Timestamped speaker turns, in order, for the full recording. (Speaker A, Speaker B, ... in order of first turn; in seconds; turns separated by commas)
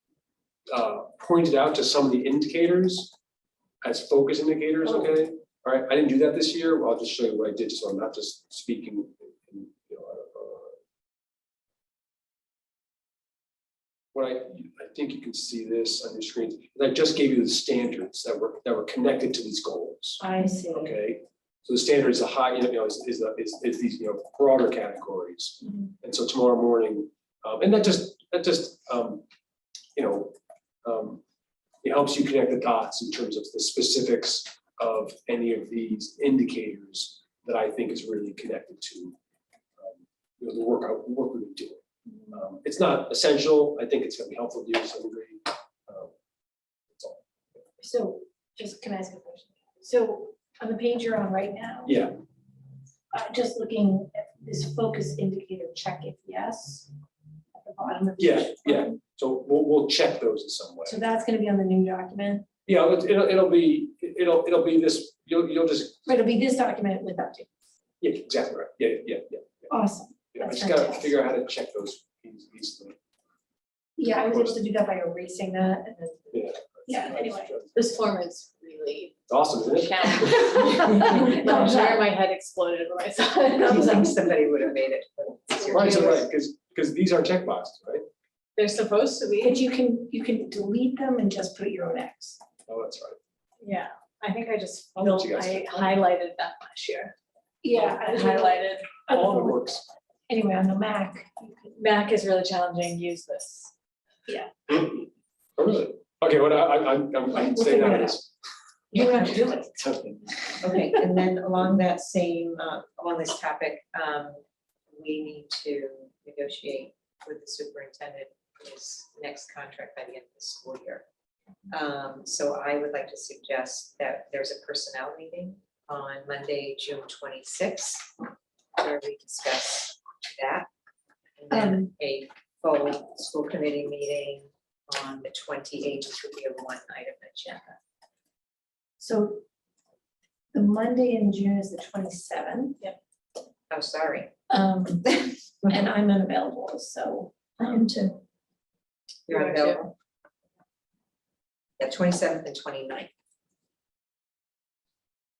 Speaker A: 0.7-3.1, Speaker A: 3.8-10.8, Speaker A: 14.1-29.2, Speaker B: 20.2-20.9, Speaker A: 30.0-31.2, Speaker A: 31.8-39.2, Speaker A: 39.8-46.1, Speaker B: 42.1-42.4, Speaker A: 46.9-47.2, Speaker B: 47.8-52.0, Speaker A: 51.9-52.1, Speaker B: 53.1-56.9, Speaker B: 57.5-59.0, Speaker A: 58.2-61.0, Speaker B: 60.9-62.5, Speaker A: 62.7-66.1, Speaker B: 66.1-67.5, Speaker A: 68.0-69.7, Speaker B: 69.7-71.1, Speaker A: 70.3-73.0, Speaker B: 74.0-76.3, Speaker A: 74.3-74.6, Speaker A: 76.3-77.8, Speaker B: 76.9-77.5, Speaker C: 77.7-79.2, Speaker A: 79.3-81.2, Speaker C: 79.7-83.7, Speaker B: 80.8-82.1, Speaker B: 83.5-84.3, Speaker D: 83.6-86.3, Speaker C: 85.6-86.1, Speaker A: 85.7-88.0, Speaker C: 88.6-89.6, Speaker B: 89.4-92.4, Speaker A: 92.7-93.2, Speaker C: 93.6-97.2, Speaker A: 95.0-95.9, Speaker B: 97.6-99.6, Speaker C: 97.7-98.9, Speaker A: 99.1-99.9, Speaker B: 100.3-101.7, Speaker C: 101.7-103.7, Speaker A: 104.7-108.3, Speaker B: 107.3-108.2, Speaker B: 108.9-109.7, Speaker A: 109.3-110.3, Speaker D: 110.6-114.4, Speaker D: 114.9-121.0, Speaker D: 121.7-128.2, Speaker D: 128.8-130.7, Speaker D: 131.4-137.8, Speaker B: 131.5-131.9, Speaker B: 139.0-139.4, Speaker B: 140.5-142.8, Speaker D: 143.7-144.3, Speaker B: 144.5-148.2, Speaker D: 149.3-149.9, Speaker C: 149.3-149.8, Speaker D: 151.8-153.1